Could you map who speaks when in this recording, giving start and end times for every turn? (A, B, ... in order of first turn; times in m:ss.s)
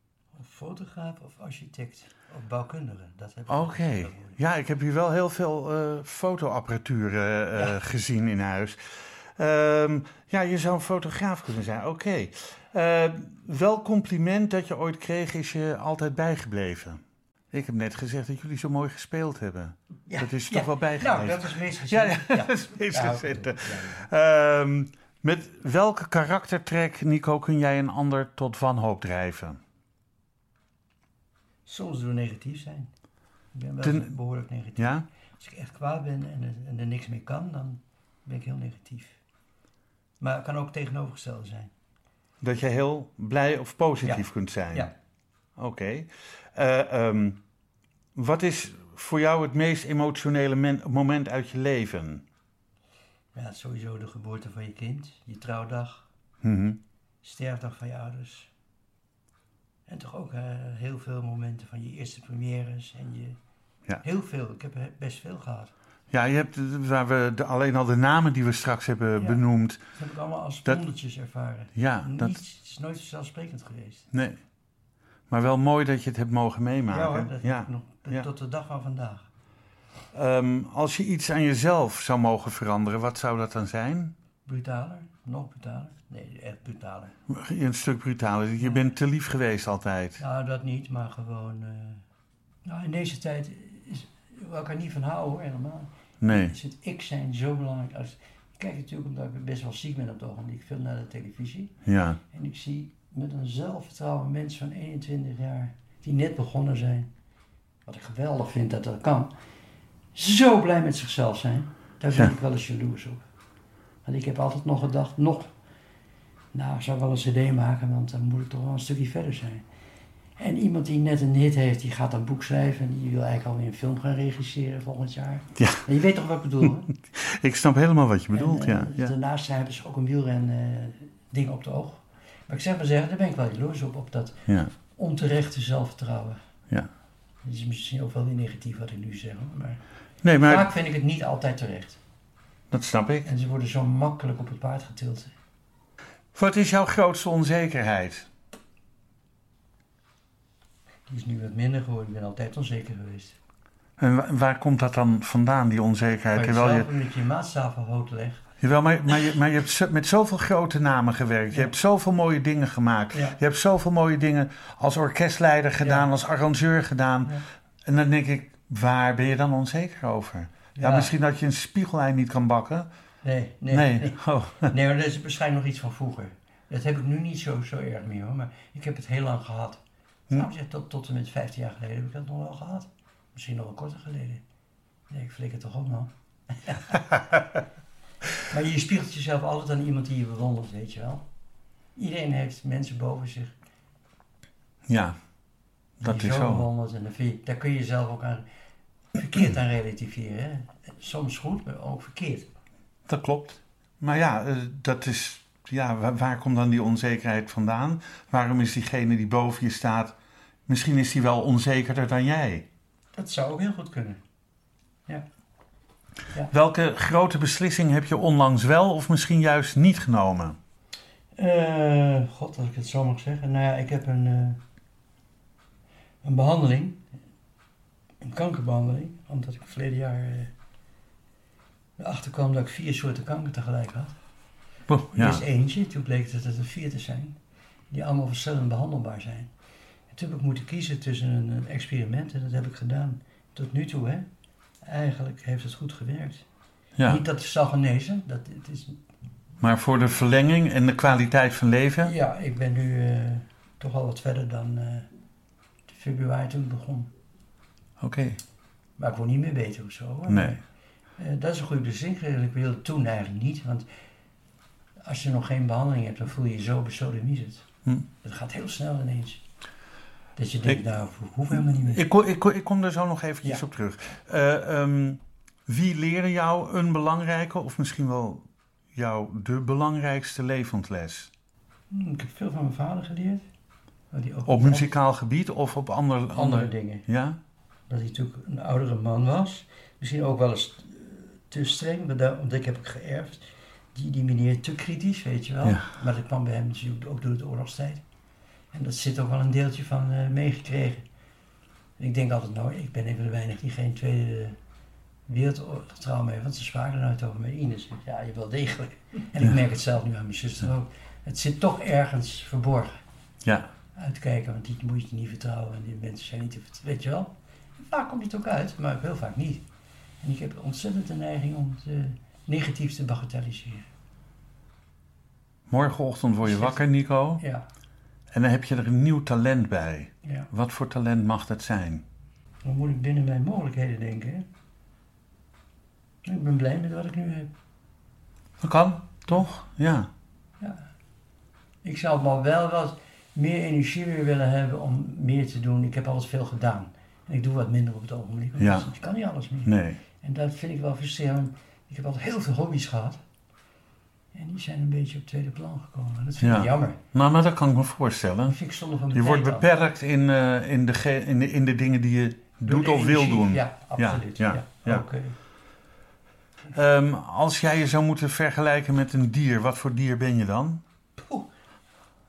0:00.3-0:04.4 A
0:03.5-0:17.0 B
0:17.5-0:29.6 B
0:20.1-0:24.1 A
0:31.7-0:32.9 A
0:33.5-0:39.2 A
0:33.8-0:34.2 B
0:34.8-0:35.1 B
0:40.2-0:41.7 A
0:42.4-0:44.9 B
0:44.0-0:44.9 A
0:45.6-0:47.4 B
0:48.2-0:52.2 B
0:53.3-0:56.1 A
0:56.4-0:56.8 B
0:57.2-0:58.5 A
0:59.9-1:03.4 A
1:04.0-1:05.7 A
1:06.1-1:09.8 B
1:09.9-1:14.1 A
1:11.8-1:12.4 B
1:14.1-1:14.4 B
1:15.3-1:18.3 B
1:16.9-1:19.3 A
1:20.1-1:24.1 B
1:24.4-1:27.2 A
1:27.3-1:30.2 B
1:30.2-1:32.0 A
1:32.6-1:41.8 A
1:36.2-1:36.5 B
1:41.9-1:42.2 B
1:42.3-1:47.1 A
1:47.9-1:49.3 A
1:50.1-1:53.2 A
1:54.0-1:55.5 A
1:56.5-1:59.6 A
2:00.4-2:06.9 A
2:05.6-2:05.9 B
2:06.6-2:09.1 B
2:08.3-2:14.4 A
2:15.0-2:16.4 A
2:17.4-2:19.8 A
2:20.2-2:20.7 B
2:20.4-2:22.0 A
2:22.7-2:23.3 B
2:23.2-2:25.3 A
2:26.3-2:28.3 B
2:31.1-2:33.4 A
2:34.0-2:36.9 B
2:36.3-2:38.4 A
2:38.6-2:52.9 B
2:43.1-2:43.4 A
2:45.8-2:46.1 A
2:50.8-2:51.1 A
2:53.2-3:04.4 A
2:53.7-2:54.7 B
3:05.1-3:07.0 A
3:08.5-3:11.2 A
3:12.0-3:13.5 A
3:14.9-3:15.2 B
3:16.0-3:16.7 B
3:16.0-3:18.4 A
3:19.1-3:22.5 A
3:23.1-3:30.2 B
3:30.7-3:32.7 B
3:33.1-3:34.2 A
3:36.5-3:40.6 B
3:41.4-3:44.6 A
3:46.2-3:47.0 A
3:48.2-3:50.5 A
3:52.0-3:54.2 A
3:54.9-3:55.4 B
3:55.1-3:57.4 A
3:57.9-3:59.5 A
4:00.1-4:04.3 A
4:04.8-4:06.4 A
4:07.0-4:07.2 B
4:07.0-4:09.0 A
4:09.6-4:12.1 B
4:12.0-4:15.1 A
4:15.9-4:17.1 A
4:18.0-4:18.4 B
4:19.0-4:20.6 A
4:20.3-4:20.6 B
4:21.2-4:23.9 A
4:25.0-4:27.7 A
4:28.2-4:29.4 A
4:30.4-4:32.0 A
4:31.5-4:41.3 B
4:41.9-4:43.4 A
4:44.1-4:44.9 A
4:44.5-4:47.4 B
4:46.4-4:47.1 A
4:47.9-4:58.0 A
4:58.7-5:01.0 A
5:02.0-5:04.6 A
5:05.3-5:13.0 A
5:13.4-5:13.7 B
5:14.0-5:19.6 A
5:20.2-5:23.9 A
5:25.7-5:27.4 B
5:26.4-5:26.8 A
5:27.4-5:27.7 A
5:28.3-5:32.0 B
5:32.6-5:34.5 A
5:36.2-5:37.5 A
5:38.6-5:40.1 B
5:40.6-5:40.9 A
5:41.8-5:53.2 A
5:48.6-5:48.9 B
5:49.7-5:50.0 B
5:54.3-5:57.0 A
5:56.4-5:58.6 B
5:58.5-5:59.7 A
5:59.1-6:05.0 B
6:02.6-6:05.4 A
6:06.7-6:10.8 B
6:11.2-6:11.5 A